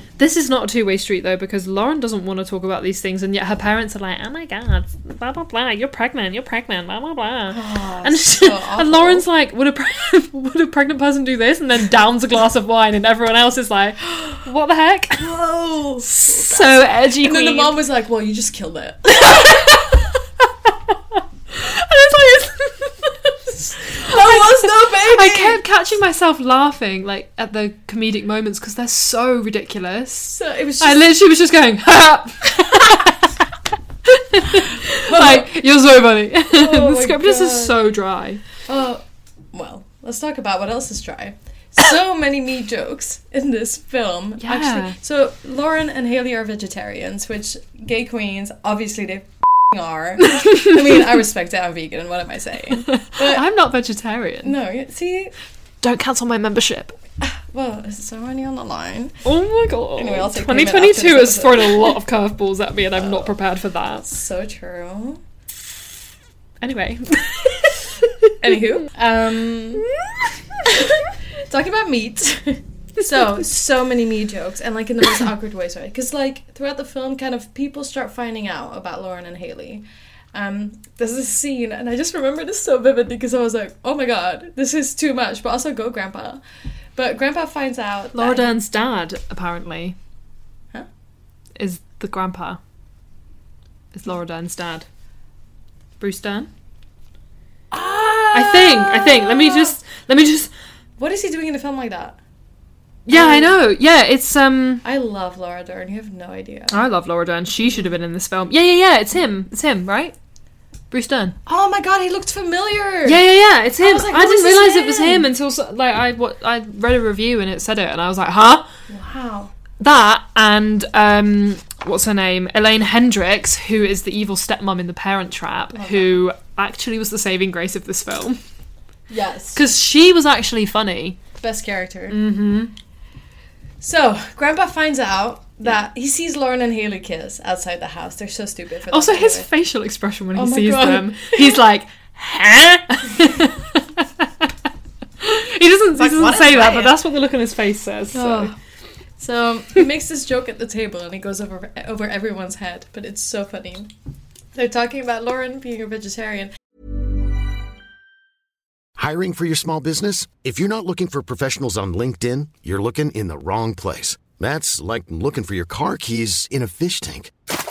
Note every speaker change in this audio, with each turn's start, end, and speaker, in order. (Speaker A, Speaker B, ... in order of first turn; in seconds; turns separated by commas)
Speaker A: 0.2-15.3, Speaker B: 7.5-9.2, Speaker B: 15.2-19.9, Speaker A: 16.0-17.7, Speaker A: 19.3-20.0, Speaker A: 21.5-23.3, Speaker B: 23.8-25.6, Speaker A: 23.8-33.3, Speaker B: 30.3-31.1, Speaker A: 34.1-38.4, Speaker B: 34.8-35.5, Speaker B: 36.5-37.8, Speaker B: 38.7-53.4, Speaker A: 44.4-45.0, Speaker A: 50.3-50.8, Speaker A: 52.8-54.5, Speaker B: 54.4-55.3, Speaker A: 55.8-57.0, Speaker B: 57.2-59.2, Speaker A: 59.2-64.0, Speaker B: 60.0-62.0, Speaker B: 63.0-63.3, Speaker B: 64.0-65.2, Speaker A: 66.6-68.3, Speaker B: 68.4-69.9, Speaker A: 70.0-70.3, Speaker B: 70.7-71.0, Speaker B: 71.5-86.4, Speaker A: 73.0-73.4, Speaker B: 87.0-88.5, Speaker A: 88.1-90.0, Speaker A: 91.6-92.6, Speaker A: 93.9-94.9, Speaker A: 96.0-96.5, Speaker B: 97.7-99.8, Speaker A: 98.3-100.5, Speaker B: 101.0-102.2, Speaker A: 103.1-104.8, Speaker B: 103.1-103.6, Speaker B: 104.8-106.9, Speaker A: 106.7-110.2, Speaker B: 107.6-107.9, Speaker A: 110.9-111.4, Speaker B: 111.5-113.2, Speaker A: 113.1-118.7, Speaker B: 113.8-115.3, Speaker B: 118.9-119.5, Speaker A: 119.8-128.4, Speaker B: 125.7-126.2, Speaker B: 129.1-129.6, Speaker A: 129.6-131.2, Speaker B: 131.4-132.2, Speaker A: 132.1-132.7, Speaker B: 133.8-139.5, Speaker A: 138.9-144.5, Speaker B: 140.3-141.6, Speaker A: 145.2-148.5, Speaker B: 146.0-146.9, Speaker B: 148.1-148.6, Speaker B: 149.2-153.9, Speaker B: 154.6-156.5, Speaker C: 159.0-167.3